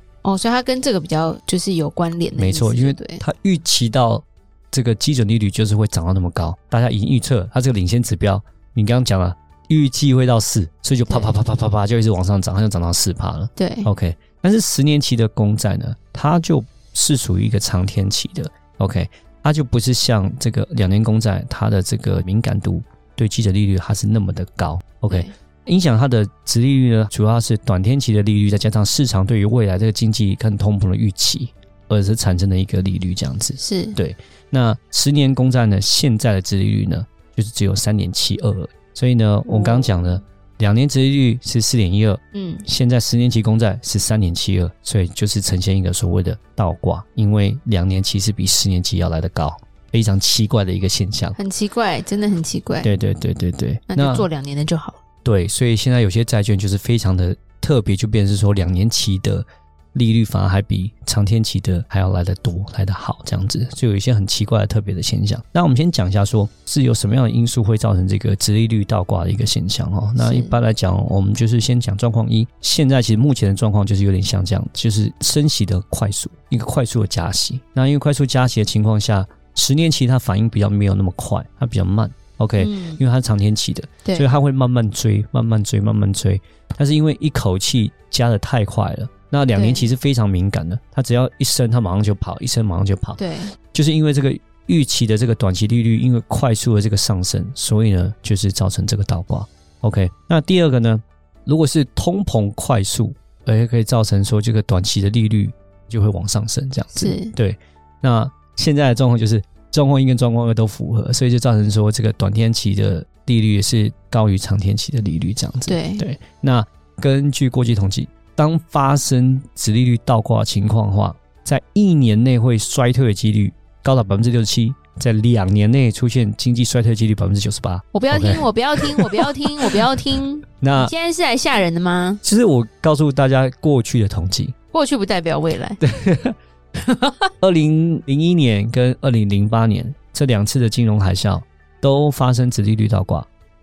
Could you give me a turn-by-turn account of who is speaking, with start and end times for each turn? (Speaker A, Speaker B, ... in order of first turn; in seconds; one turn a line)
Speaker A: 0.2-3.2
Speaker B: 2.4-51.4
Speaker A: 11.1-11.3
Speaker A: 13.6-13.9
Speaker A: 33.6-34.0
Speaker A: 39.5-40.1
Speaker A: 42.3-42.6
Speaker A: 51.4-52.9
Speaker B: 52.8-54.3
Speaker A: 53.9-55.0
Speaker B: 55.2-93.2
Speaker A: 70.2-70.6
Speaker A: 82.6-83.0
Speaker A: 89.5-89.9
Speaker A: 93.2-93.5
Speaker B: 93.7-129.5
Speaker A: 107.0-107.3
Speaker A: 115.7-116.1
Speaker A: 127.9-132.2
Speaker B: 130.6-130.9
Speaker B: 132.2-134.6
Speaker A: 134.7-135.8
Speaker B: 135.8-136.4
Speaker B: 137.4-143.3